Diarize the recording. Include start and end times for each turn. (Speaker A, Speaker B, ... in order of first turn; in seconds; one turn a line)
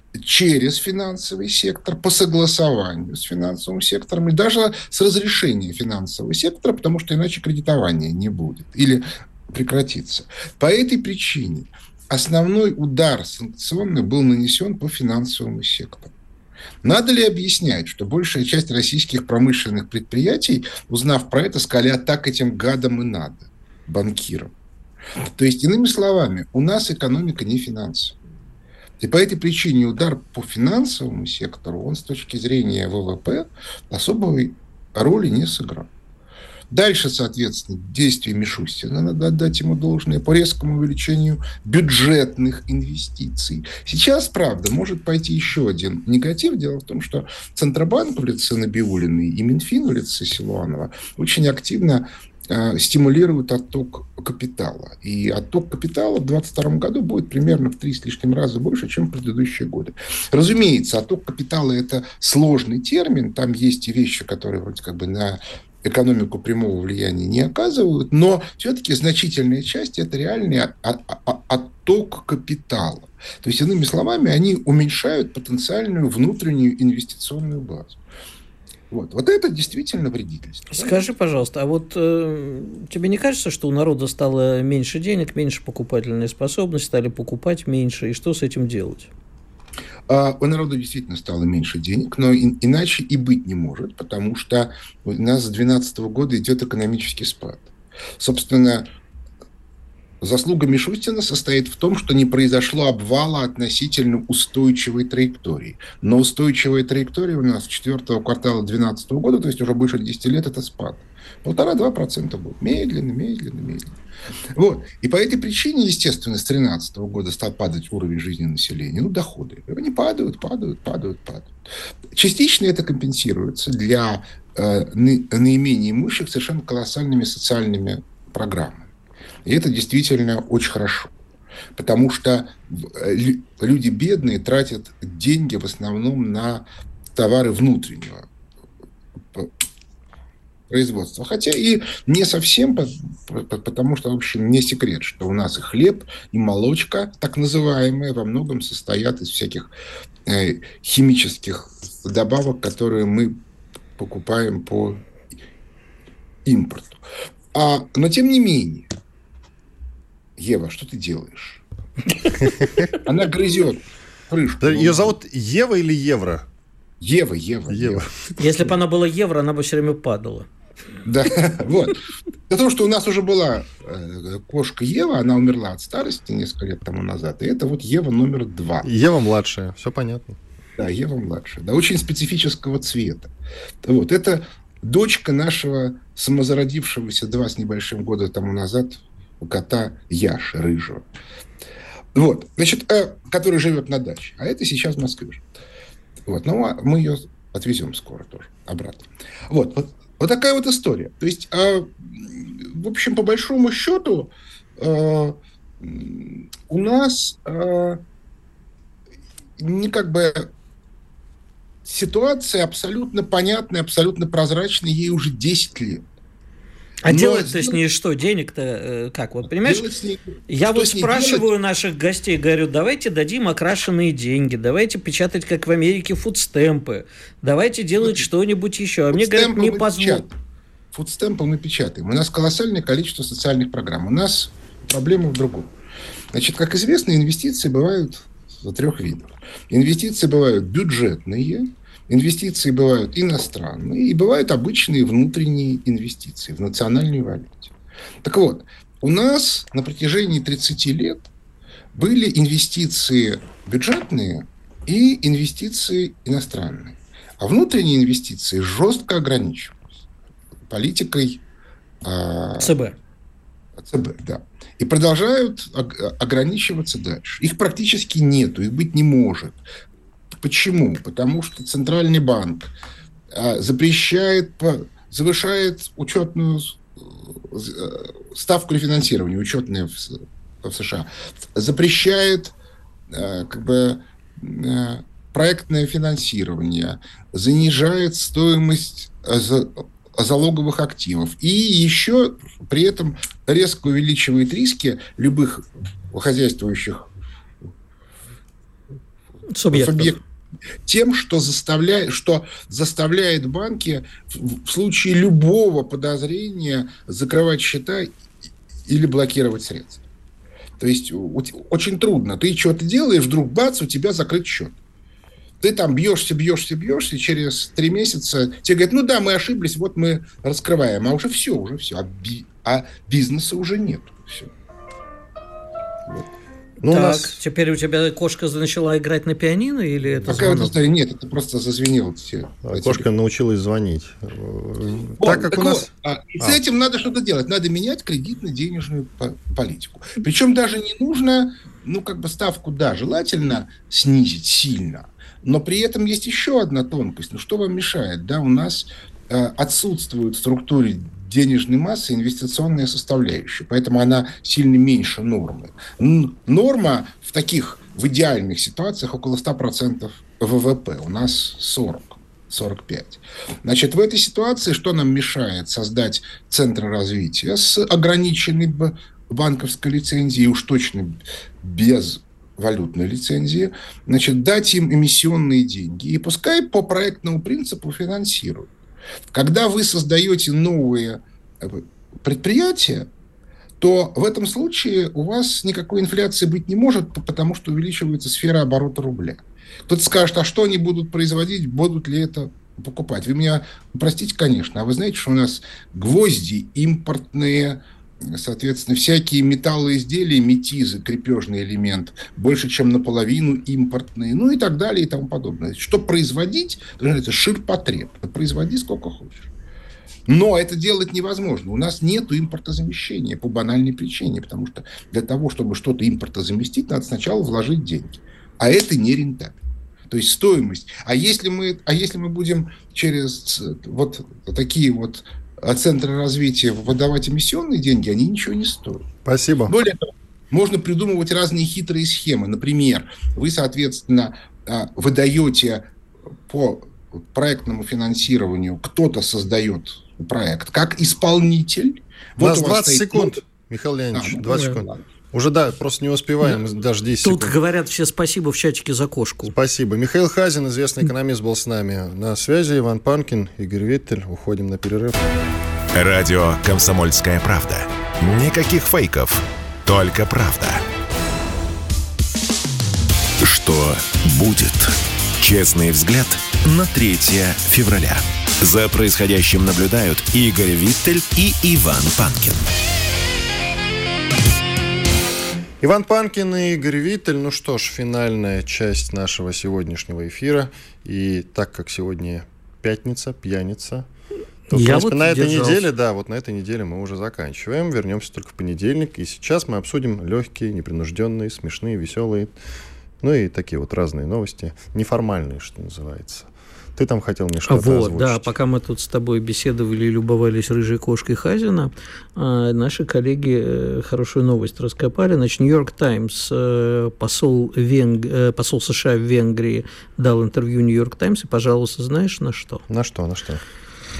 Speaker A: 0.2-16.1
Speaker A: 16.8-24.5
Speaker A: 25.3-28.2
Speaker A: 29.0-35.9
Speaker A: 36.7-78.0
Speaker A: 78.9-81.1
Speaker B: 80.7-89.1
Speaker A: 90.1-98.9
Speaker A: 100.2-114.0
Speaker A: 114.5-121.5
Speaker A: 122.1-128.9
Speaker A: 129.4-131.1
Speaker A: 131.8-138.3
Speaker A: 140.7-149.7
Speaker A: 150.3-153.4
Speaker A: 154.0-155.1
Speaker A: 156.4-157.0
Speaker A: 157.5-158.9
Speaker A: 160.4-161.6
Speaker C: 162.6-162.9
Speaker A: 163.0-165.1
Speaker C: 164.6-166.5
Speaker A: 167.0-168.0
Speaker C: 167.7-168.3
Speaker B: 168.4-170.5
Speaker A: 171.1-172.0
Speaker A: 172.5-178.9
Speaker C: 178.8-180.4
Speaker A: 180.8-183.3
Speaker A: 183.8-191.1
Speaker A: 192.1-195.5
Speaker A: 196.3-208.0
Speaker A: 209.6-210.5
Speaker A: 211.8-216.1
Speaker B: 217.0-219.8
Speaker A: 217.1-217.8
Speaker A: 219.6-221.5
Speaker B: 220.5-230.2
Speaker A: 228.0-228.3
Speaker A: 229.1-230.3
Speaker A: 230.9-235.7
Speaker A: 236.3-247.7
Speaker A: 248.2-251.3
Speaker A: 251.9-259.8
Speaker A: 260.7-261.4
Speaker A: 262.0-262.8
Speaker B: 262.6-263.0
Speaker A: 263.8-269.6
Speaker A: 270.4-272.7
Speaker A: 273.3-282.5
Speaker A: 283.1-297.1
Speaker B: 299.6-300.1
Speaker A: 299.7-300.2
Speaker A: 300.9-308.1
Speaker A: 308.9-310.0
Speaker A: 310.8-314.8
Speaker A: 315.6-324.5
Speaker C: 326.8-327.4
Speaker B: 326.8-330.8
Speaker A: 330.3-333.1
Speaker C: 332.6-335.9
Speaker A: 335.2-378.7
Speaker A: 379.3-383.1
Speaker A: 383.8-409.5
Speaker A: 410.3-419.6
Speaker A: 420.1-429.1
Speaker C: 429.2-429.8
Speaker A: 429.7-435.9
Speaker A: 436.5-443.4
Speaker C: 442.4-447.6
Speaker A: 444.1-445.0
Speaker B: 444.5-444.8
Speaker B: 447.2-449.6
Speaker C: 449.5-455.2
Speaker D: 455.9-460.8
Speaker D: 463.4-472.6
Speaker C: 475.8-484.1
Speaker C: 484.7-492.5
Speaker B: 484.7-485.9
Speaker C: 493.2-498.5
Speaker B: 497.7-512.8
Speaker C: 512.9-513.6